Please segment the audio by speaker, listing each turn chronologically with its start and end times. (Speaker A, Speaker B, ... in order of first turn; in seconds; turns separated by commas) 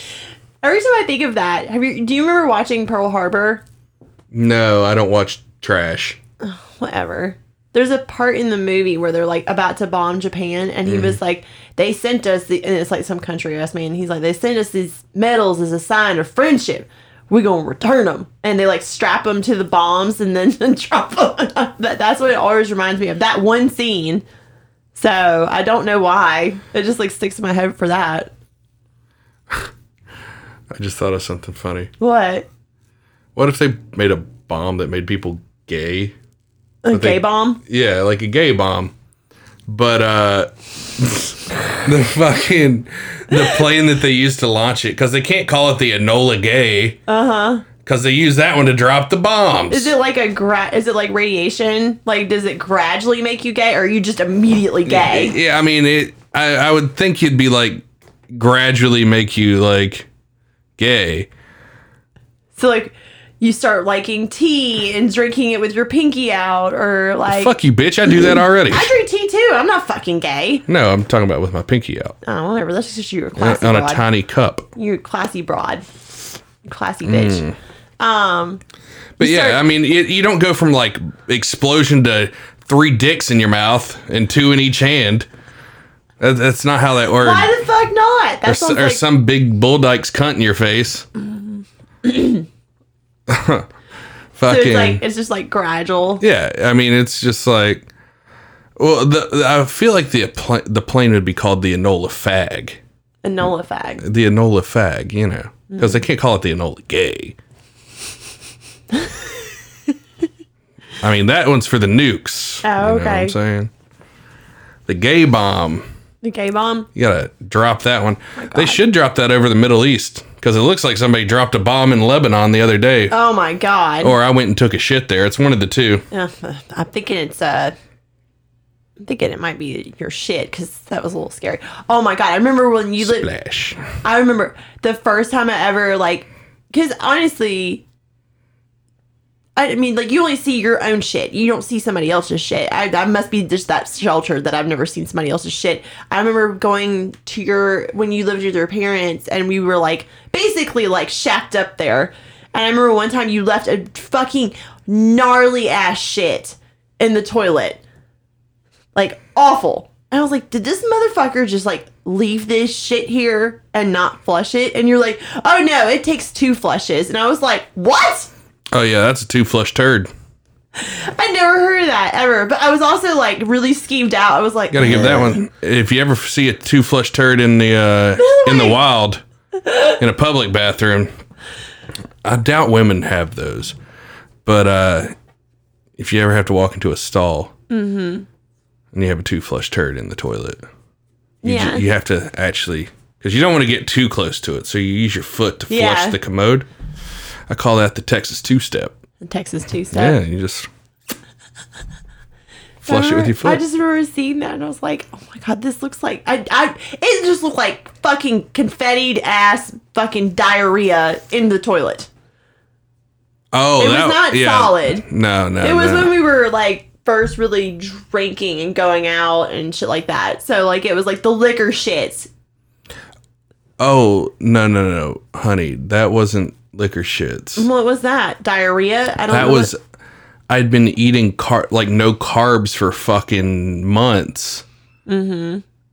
Speaker A: 0.6-3.6, Speaker B: 4.3-6.2, Speaker A: 6.4-24.2, Speaker B: 10.8-11.2, Speaker A: 24.9-28.3, Speaker B: 30.7-31.9, Speaker A: 32.0-32.5, Speaker B: 33.3-36.1, Speaker A: 36.8-37.6, Speaker B: 36.9-38.9, Speaker B: 39.7-47.0, Speaker A: 43.3-43.6, Speaker A: 47.1-47.6, Speaker B: 47.8-49.9, Speaker A: 49.7-55.4, Speaker B: 54.9-60.1, Speaker B: 60.8-61.3, Speaker A: 62.5-67.5, Speaker B: 67.3-68.9, Speaker A: 68.1-70.6, Speaker B: 70.7-72.1, Speaker A: 72.2-74.0, Speaker B: 73.4-74.7, Speaker A: 74.8-77.4, Speaker B: 77.0-77.5, Speaker A: 78.0-78.6, Speaker A: 79.2-79.6, Speaker B: 79.2-85.3, Speaker B: 86.2-87.5, Speaker A: 87.2-89.0, Speaker B: 88.5-91.1, Speaker A: 92.0-92.4, Speaker B: 93.3-93.7, Speaker B: 94.3-95.0, Speaker A: 94.5-96.2, Speaker B: 96.2-97.9, Speaker B: 98.8-102.8, Speaker A: 103.2-104.0, Speaker B: 104.0-107.4, Speaker A: 105.7-106.0, Speaker A: 108.9-109.2, Speaker B: 111.0-113.7, Speaker A: 112.6-113.3, Speaker B: 114.9-115.8, Speaker A: 116.2-116.9, Speaker B: 116.9-123.1, Speaker A: 118.4-118.8, Speaker A: 123.1-124.2, Speaker B: 124.0-126.0, Speaker A: 126.1-127.7, Speaker A: 129.0-133.3, Speaker B: 133.0-133.8, Speaker A: 134.0-137.8, Speaker A: 139.6-157.8, Speaker A: 158.9-168.3, Speaker B: 168.7-170.1, Speaker A: 170.8-175.4, Speaker B: 174.7-179.2, Speaker A: 178.2-178.8, Speaker B: 180.0-181.1, Speaker B: 182.2-183.8, Speaker B: 184.4-185.1, Speaker B: 186.0-187.5, Speaker A: 187.7-188.3, Speaker B: 188.9-190.6, Speaker A: 191.4-191.8, Speaker B: 191.4-196.7, Speaker A: 195.7-196.2, Speaker B: 197.5-198.9, Speaker A: 199.2-200.2, Speaker B: 199.9-200.7, Speaker B: 202.8-203.6, Speaker A: 202.8-212.1, Speaker B: 213.5-216.1, Speaker A: 213.8-215.0, Speaker A: 215.6-222.3, Speaker B: 223.8-227.7, Speaker A: 227.6-229.7, Speaker B: 229.3-229.8, Speaker B: 230.5-234.6, Speaker A: 235.1-235.6